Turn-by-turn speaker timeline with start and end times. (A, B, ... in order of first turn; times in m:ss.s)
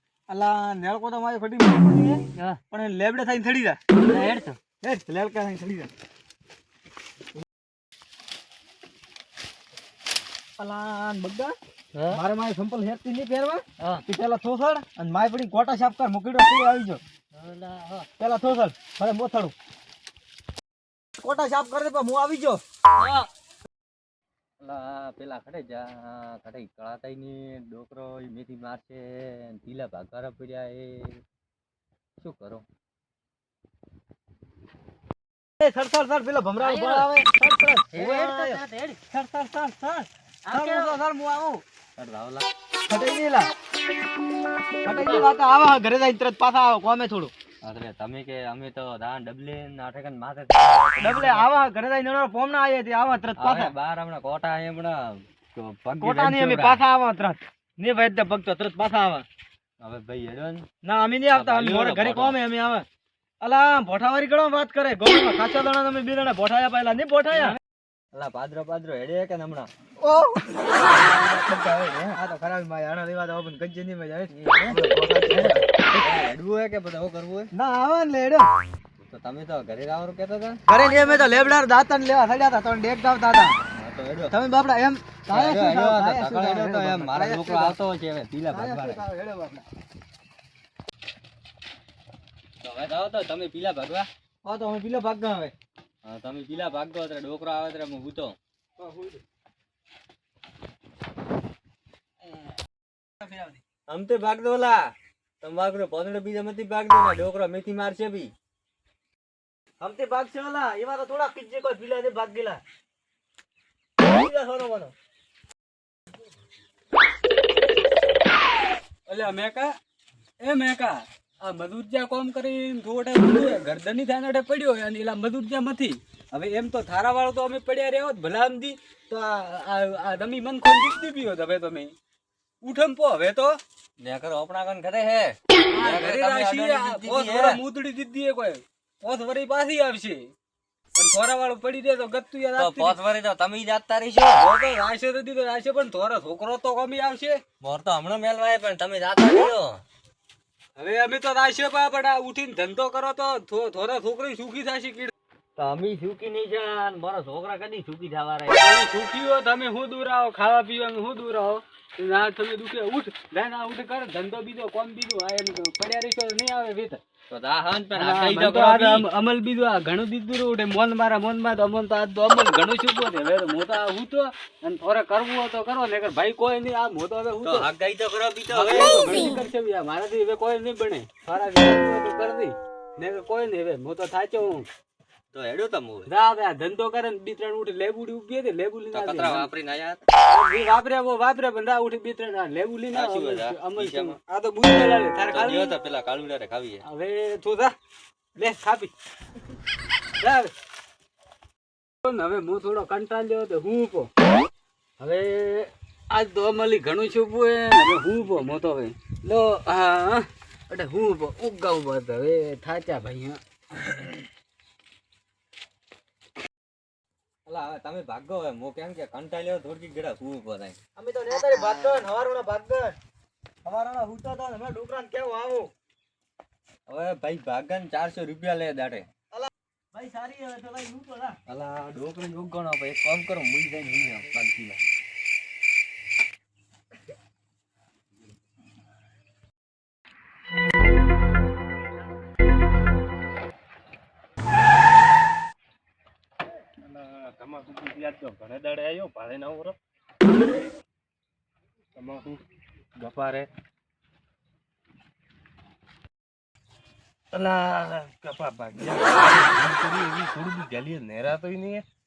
0:00.3-0:03.8 A
0:04.1-0:04.6 B
0:04.8-0:05.9 A
0:10.6-0:11.5 A
0:11.9-0:12.2 B
0:12.1-0:17.0 A
0:13.8-0:14.0 B
0:17.3-0:18.1 B
0:18.2-0:19.5 A
0:21.2-0:22.6 A
0:22.9-0:23.3 B
0:24.6-0:31.2 B
0:32.2-0:32.6 B
0:35.6-0:41.6 A
0:36.6-0:37.1 B
0:37.9-0:39.0 B
0:40.4-0:41.0 B
0:42.0-0:42.5 B
0:42.9-0:43.5 A
0:44.8-0:47.3 A
0:47.6-0:51.5 B
0:51.0-0:53.7 A
0:53.4-0:56.8 B
0:56.0-0:59.2 A
0:59.8-1:00.7 B
1:00.8-1:02.8 A
1:01.3-1:02.4 B
1:03.4-1:07.6 A
1:07.3-1:07.6 B
1:08.1-1:09.7 B
1:10.0-1:16.0 A
1:14.3-1:17.5 B
1:17.5-1:18.5 A
1:19.0-1:21.5 B
1:20.7-1:23.6 A
1:23.7-1:24.4 B
1:24.3-1:27.8 A
1:25.3-1:29.0 B
1:28.5-1:29.6 A
1:32.6-1:34.1 B
1:34.4-1:35.5 A
1:36.0-1:38.4 B
1:38.8-1:39.2 A
1:43.2-1:43.6 C
1:43.9-1:48.3 B
1:49.8-1:52.6 A
1:54.0-1:54.9 A
1:59.1-1:59.7 C
2:00.4-2:11.9 C
2:12.6-2:13.6 C
2:14.0-2:17.6 B
2:15.7-2:20.3 C
2:21.0-2:23.0 C
2:22.6-2:24.4 B
2:24.3-2:27.4 C
2:27.6-2:29.8 B
2:30.8-2:35.1 C
2:35.6-2:38.7 B
2:38.6-2:47.0 C
2:47.3-2:49.0 B
2:48.0-2:57.7 C
2:57.4-2:59.4 B
2:58.5-3:04.7 C
3:05.3-3:06.1 B
3:06.0-3:09.5 C
3:08.9-3:10.0 B
3:10.3-3:15.7 C
3:12.9-3:14.2 B
3:15.3-3:16.8 B
3:16.8-3:17.7 C
3:18.4-3:18.9 C
3:20.2-3:20.5 C
3:22.0-3:24.1 C
3:25.0-3:34.0 C
3:37.4-3:40.8 B
3:41.0-3:43.0 A
3:41.4-3:42.0 B
3:43.6-3:45.7 A
3:46.9-3:49.0 B
3:49.3-3:51.4 A
3:51.5-3:54.8 B
4:06.8-4:09.8 D
4:12.0-4:12.4 D
4:13.0-4:13.5 D
4:17.3-4:21.8 D